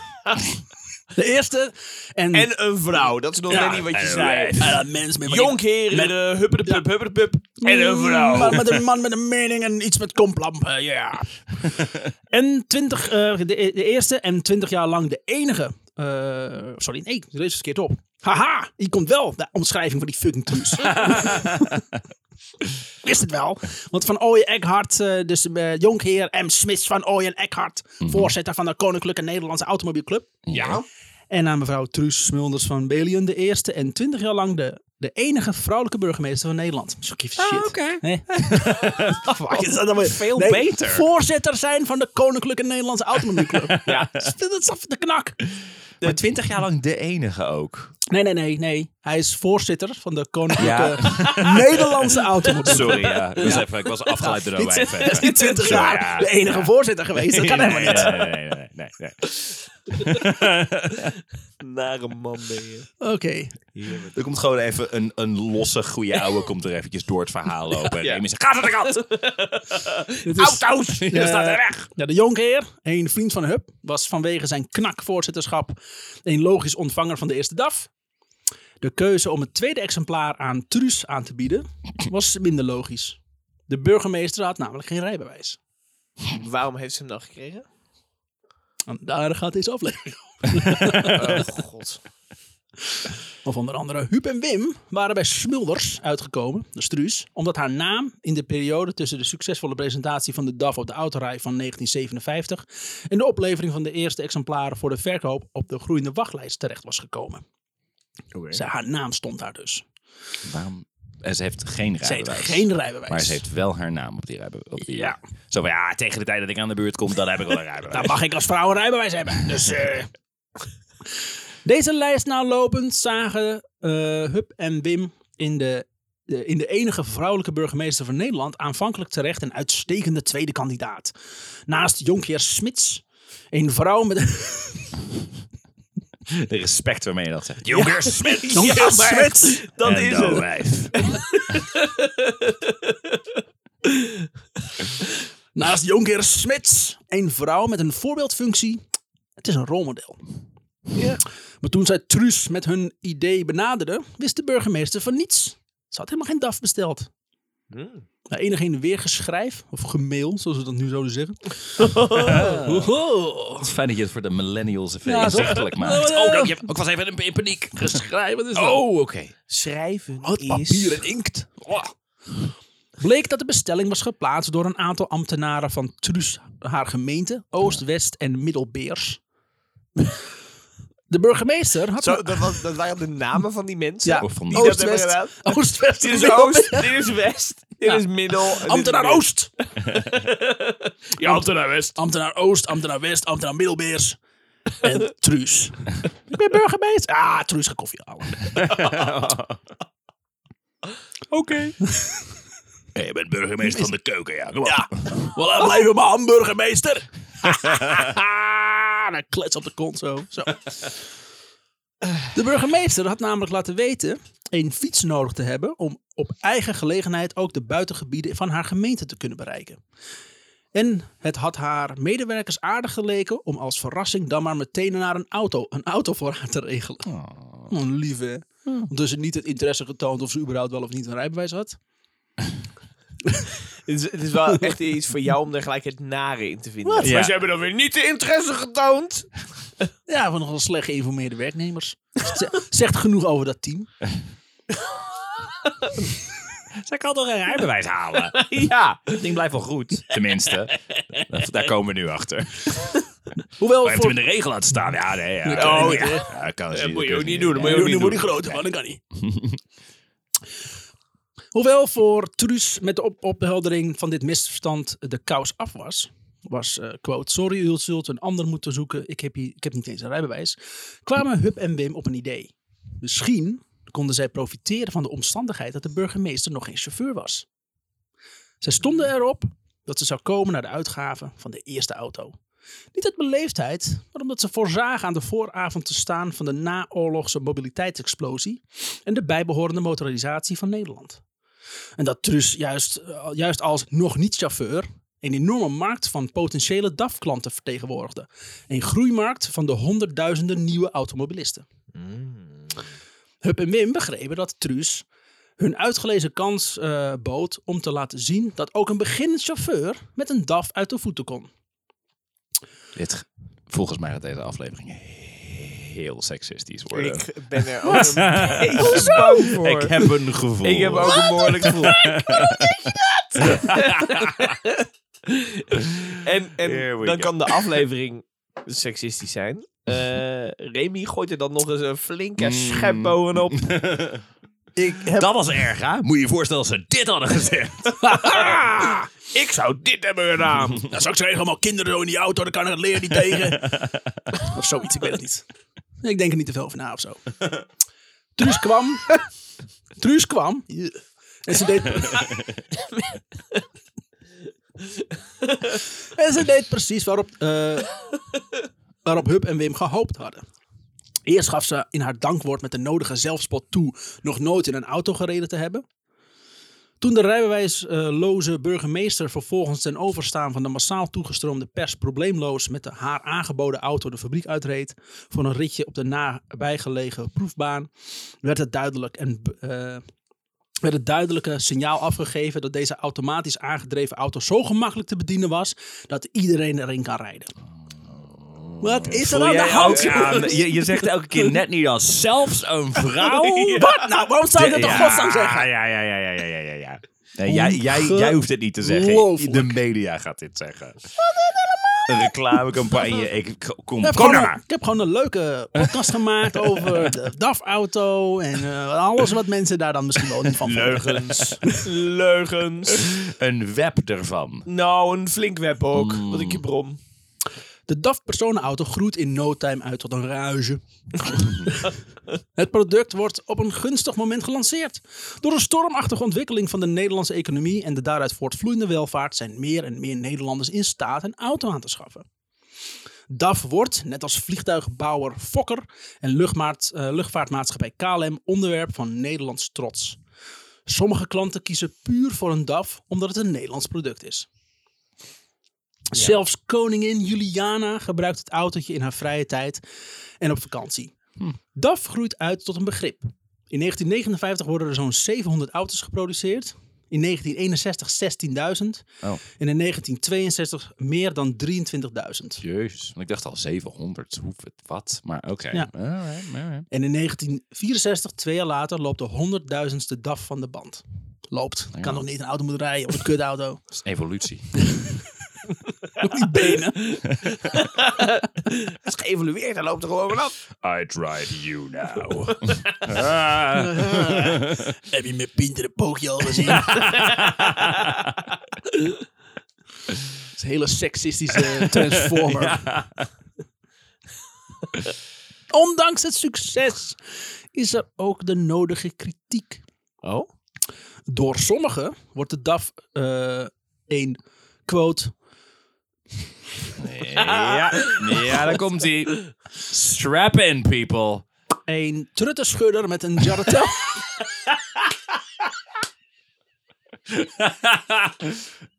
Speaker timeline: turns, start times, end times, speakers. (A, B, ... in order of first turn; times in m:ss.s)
0:01.1-0:02.5 A
0:02.3-0:08.8 B
0:03.5-0:03.9 A
0:03.6-0:04.8 C
0:04.5-0:06.9 A
0:07.6-0:11.5 A
0:12.3-0:21.7 A
0:21.0-0:21.7 C
0:23.0-0:30.4 A
0:28.0-0:28.3 C
0:30.5-0:30.8 C
0:30.5-0:30.8 B
0:31.3-0:45.4 A
0:37.4-0:41.0 C
0:43.4-0:44.3 C
0:46.0-0:47.9 C
0:48.1-0:58.3 A
0:50.6-0:52.0 C
0:51.1-0:51.4 B
0:52.6-0:53.6 B
0:52.6-0:56.7 C
0:54.8-0:56.0 B
0:57.2-1:01.1 C
0:57.7-0:58.4 B
1:01.6-1:02.9 B
1:03.0-1:03.6 A
1:03.8-1:04.1 B
1:04.1-1:09.1 C
1:08.0-1:08.2 B
1:08.8-1:11.8 B
1:10.2-1:17.9 A
1:11.0-1:11.6 C
1:18.8-1:25.6 A
1:26.3-1:27.7 B
1:28.9-1:31.4 A
1:31.0-1:32.0 B
1:33.4-1:47.4 A
1:48.3-1:48.6 B
1:48.5-1:49.9 A
1:50.4-1:58.2 C
1:52.0-1:53.4 A
1:57.9-2:00.1 A
2:01.6-2:11.1 A
2:11.7-2:15.0 A
2:16.3-2:18.6 C
2:17.7-2:19.6 A
2:18.2-2:23.2 B
2:19.8-2:21.0 C
2:23.9-2:24.2 B
2:25.6-2:28.8 A
2:29.4-2:30.2 A
2:31.0-2:31.2 B
2:31.6-2:37.1 A
2:37.7-2:38.0 B
2:38.3-2:43.7 A
2:41.8-2:42.4 B
2:42.1-2:42.9 C
2:43.6-2:48.0 C
2:45.0-2:46.6 A
2:47.8-2:48.8 A
2:48.5-2:49.4 C
2:49.5-2:51.1 B
2:50.2-2:51.9 A
2:53.0-2:59.2 A
3:01.1-3:02.6 A
3:02.0-3:09.3 B
3:04.0-3:07.0 A
3:04.2-3:04.8 C
3:08.6-3:09.5 A
3:09.9-3:12.0 B
3:11.2-3:14.2 A
3:14.8-3:18.9 A
3:18.6-3:19.6 C
3:21.3-3:21.8 C
3:21.9-3:22.2 A
3:23.0-3:25.3 C
3:23.6-3:23.9 A
3:24.6-3:30.7 A
3:32.3-3:39.8 A
3:40.7-3:47.1 A
3:47.0-3:47.7 C
3:47.7-3:51.8 A
3:53.3-3:53.6 A
3:53.8-3:59.4 B
3:56.8-3:57.2 A
3:57.0-3:57.3 C
4:00.1-4:03.9 A
4:06.7-4:08.5 C
4:08.4-4:09.2 B
4:09.1-4:12.8 C
4:13.6-4:14.2 A
4:13.8-4:18.6 C
4:15.4-4:16.3 A
4:15.6-4:18.3 B
4:17.6-4:19.0 A
4:19.2-4:19.6 C
4:21.5-4:37.5 A
4:38.6-4:42.4 A
4:42.9-4:51.2 A
4:52.0-5:01.6 A
5:02.0-5:02.8 B
5:03.4-5:05.1 A
5:05.6-5:11.5 A
5:13.0-5:17.3 C
5:16.9-5:33.7 B
5:17.8-5:24.5 C
5:17.9-5:18.2 A
5:18.8-5:19.3 A
5:26.6-5:27.6 C
5:32.4-5:34.2 C
5:34.8-5:38.3 C
5:34.8-5:35.3 A
5:38.0-5:39.1 A
5:38.3-5:40.9 B
5:40.8-5:43.8 A
5:44.3-5:45.4 A
5:46.0-5:47.3 A
5:48.4-5:49.2 A
5:50.0-5:52.3 A
5:52.8-5:53.6 B
5:56.1-5:58.0 A
5:59.0-6:00.4 A
6:01.3-6:05.8 A
6:07.0-6:17.9 A
6:18.4-6:20.0 A
6:20.8-6:27.5 A
6:28.0-6:33.8 C
6:28.8-6:31.5 A
6:29.5-6:30.6 B
6:33.2-6:34.0 B
6:33.8-6:35.7 A
6:34.6-6:41.0 C
6:37.5-6:39.8 A
6:41.2-6:42.1 A
6:42.1-6:44.6 C
6:44.0-6:51.8 A
6:46.6-6:47.1 C
6:50.6-6:53.1 B
6:52.9-6:54.7 C
6:54.7-6:57.0 B
6:55.9-6:56.6 C
6:57.9-7:02.0 A
7:02.6-7:12.3 A
7:13.3-7:20.2 A
7:20.9-7:24.5 A
7:26.1-7:29.8 A
7:30.4-7:31.2 A
7:31.7-7:42.6 A
7:42.6-7:46.9 C
7:46.9-7:53.8 A
7:52.0-7:52.2 C
7:54.0-7:54.8 C
7:54.8-7:55.2 A
7:56.2-7:57.2 A
7:56.8-8:00.6 B
8:00.8-8:04.9 C
8:03.7-8:07.3 A
8:06.6-8:08.3 C
8:10.6-8:12.9 A
8:11.9-8:13.3 C
8:15.7-8:17.2 A
8:17.7-8:19.8 A
8:20.2-8:20.5 B
8:21.3-8:25.3 A
8:27.0-8:31.5 C
8:27.4-8:28.6 B
8:31.9-8:34.3 A
8:37.3-8:38.7 C